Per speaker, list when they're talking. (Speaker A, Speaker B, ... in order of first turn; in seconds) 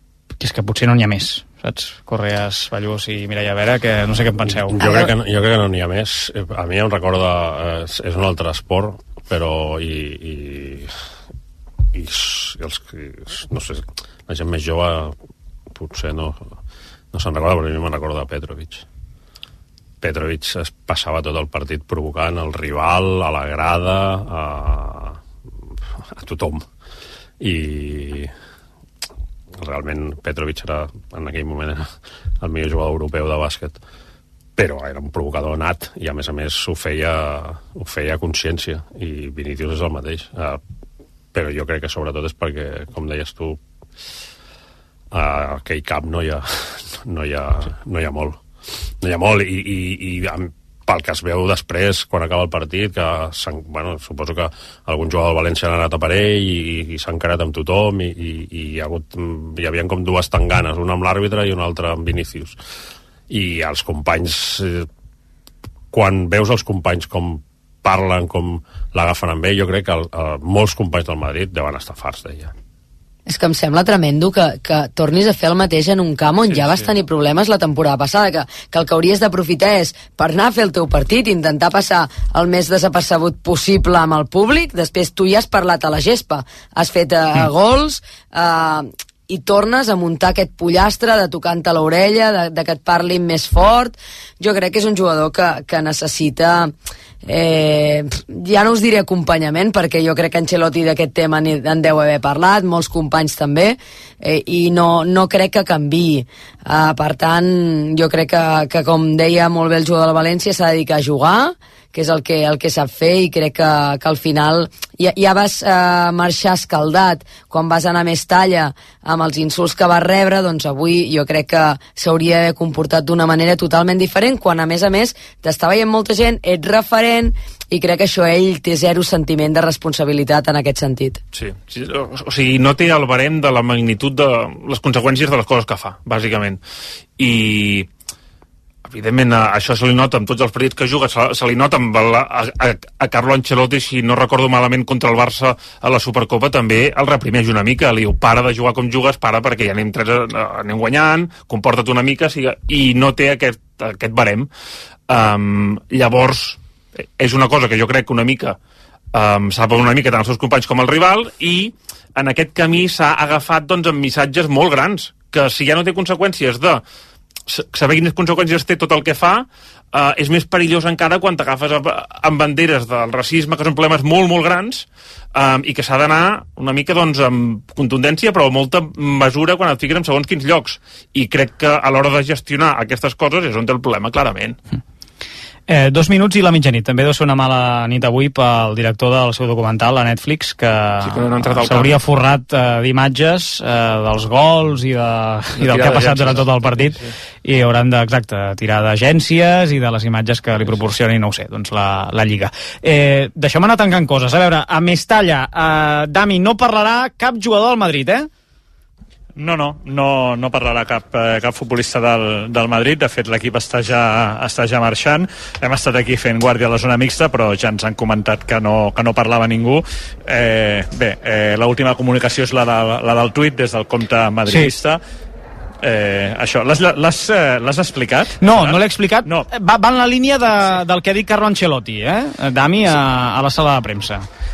Speaker A: 0.4-5.0, 185.7-208.3, 228.4-234.2
Speaker B: 4.4-10.9, 11.9-15.1, 15.7-16.5, 17.1-18.8, 20.0-25.2, 26.2-26.6, 27.4-28.3, 29.6-31.9, 32.4-33.8, 34.6-40.6, 41.3-43.6, 45.1-48.4, 49.0-62.6, 63.3-64.9, 65.9-72.5
Speaker C: 73.3-96.7, 97.2-131.2
Speaker D: 76.5-76.9, 131.3-136.6, 137.2-137.9, 138.9-154.5, 155.1-156.6, 157.2-158.6, 159.1-166.8, 167.5-184.6, 191.0-191.9, 195.6-196.4
Speaker E: 209.4-225.0, 225.8-229.5